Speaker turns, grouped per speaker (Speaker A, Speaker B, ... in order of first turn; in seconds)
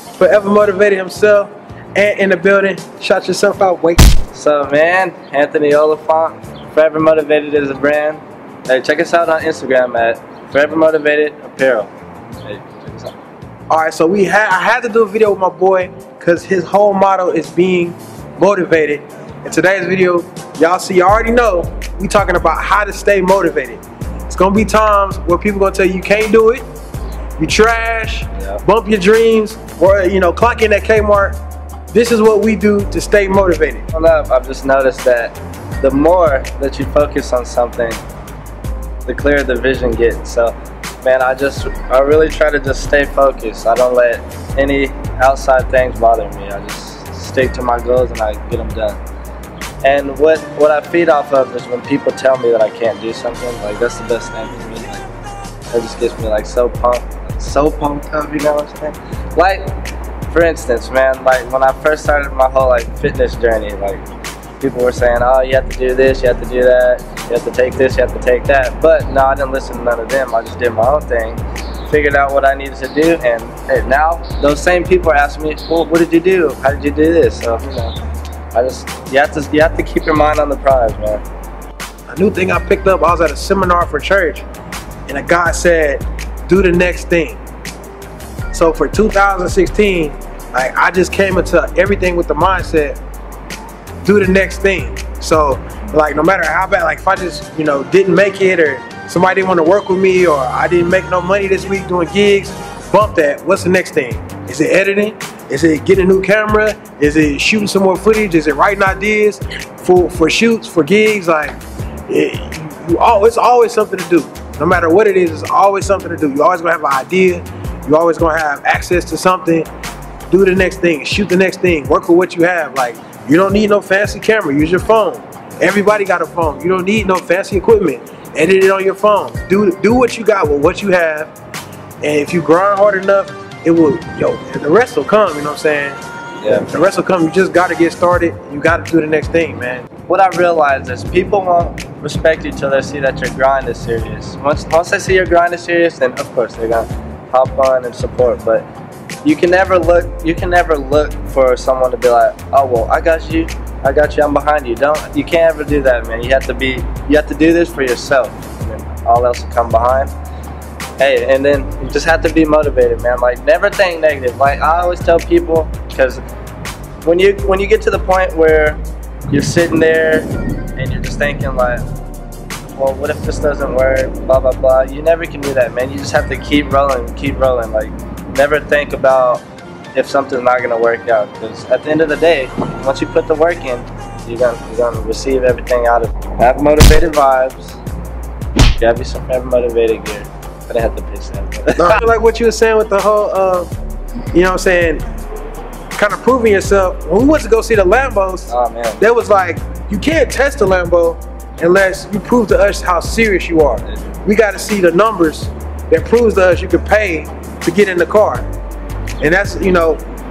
Speaker A: 0.2-4.1, 13.7-26.6, 27.4-31.4, 31.9-33.9, 82.1-84.4, 85.1-87.4, 88.5-93.0, 94.0-119.7, 120.3-131.3, 132.0-139.9, 191.8-193.7, 194.3-195.0, 195.9-208.4, 209.2-210.0
Speaker B: 4.3-11.9, 12.4-13.1, 28.4-28.6, 33.9-38.0, 39.0-49.0, 49.8-55.0, 55.7-59.8, 60.3-64.0, 64.6-77.9, 78.5-81.2, 136.4-136.8, 140.1-148.7, 149.2-160.1, 161.0-166.2, 167.0-171.8, 172.7-187.8, 188.8-192.0, 198.5-199.0